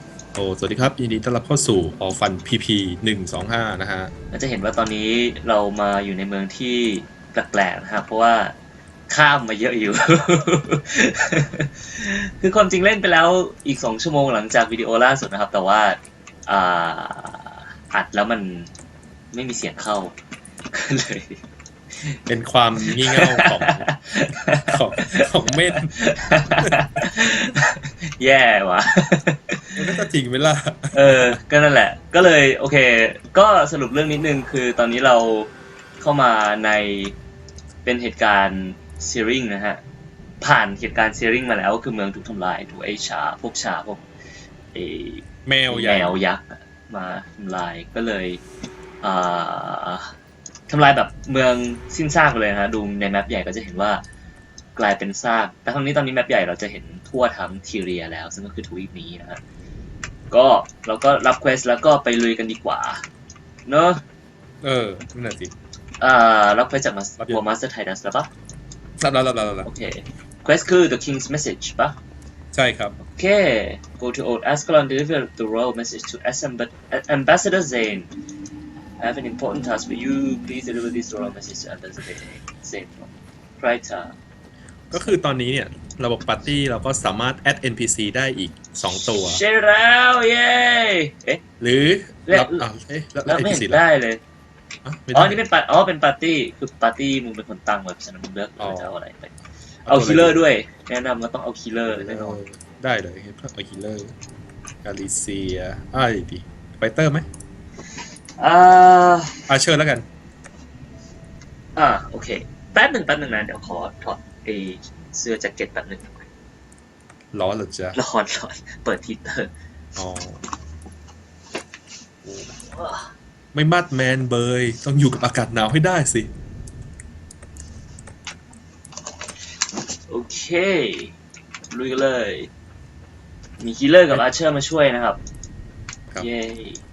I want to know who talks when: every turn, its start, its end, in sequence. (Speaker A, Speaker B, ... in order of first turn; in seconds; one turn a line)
Speaker A: 0.3-4.1
Speaker B: 4.3-8.6
Speaker B: 9.1-18.7
Speaker B: 19.3-20.1
Speaker B: 20.7-21.4
Speaker A: 22.3-23.9
Speaker B: 22.8-30.0
Speaker A: 24.6-25.9
Speaker A: 26.5-26.8
Speaker A: 29.8-31.4
Speaker B: 30.9-37.1
Speaker B: 37.9-39.8
Speaker B: 40.4-44.0
Speaker B: 44.7-48.4
Speaker A: 45.5-46.2
Speaker B: 49.0-50.1
Speaker B: 50.7-54.0
Speaker B: 54.8-59.4
Speaker B: 60.3-63.0
Speaker B: 63.7-64.0
Speaker A: 64.6-65.5
Speaker B: 66.0-68.3
Speaker A: 69.0-69.7
Speaker B: 69.7-72.0
Speaker A: 72.5-73.0
Speaker B: 73.0-78.1
Speaker B: 79.0-84.2
Speaker A: 84.9-89.4
Speaker B: 88.9-91.4
Speaker A: 91.6-93.8
Speaker B: 92.3-92.7
Speaker B: 93.3-94.2
Speaker A: 94.8-95.4
Speaker B: 95.1-99.3
Speaker A: 98.6-98.9
Speaker A: 99.9-100.4
Speaker B: 99.9-102.4
Speaker A: 101.9-104.2
Speaker A: 104.8-107.3
Speaker B: 108.4-109.5
Speaker A: 109.5-110.1
Speaker B: 111.8-116.3
Speaker A: 117.3-118.0
Speaker B: 117.9-119.5
Speaker A: 120.0-120.4
Speaker A: 122.2-122.5
Speaker B: 122.6-123.1
Speaker A: 123.5-126.3
Speaker B: 130.1-131.2
Speaker B: 131.7-132.5
Speaker B: 133.6-135.2
Speaker B: 136.2-136.8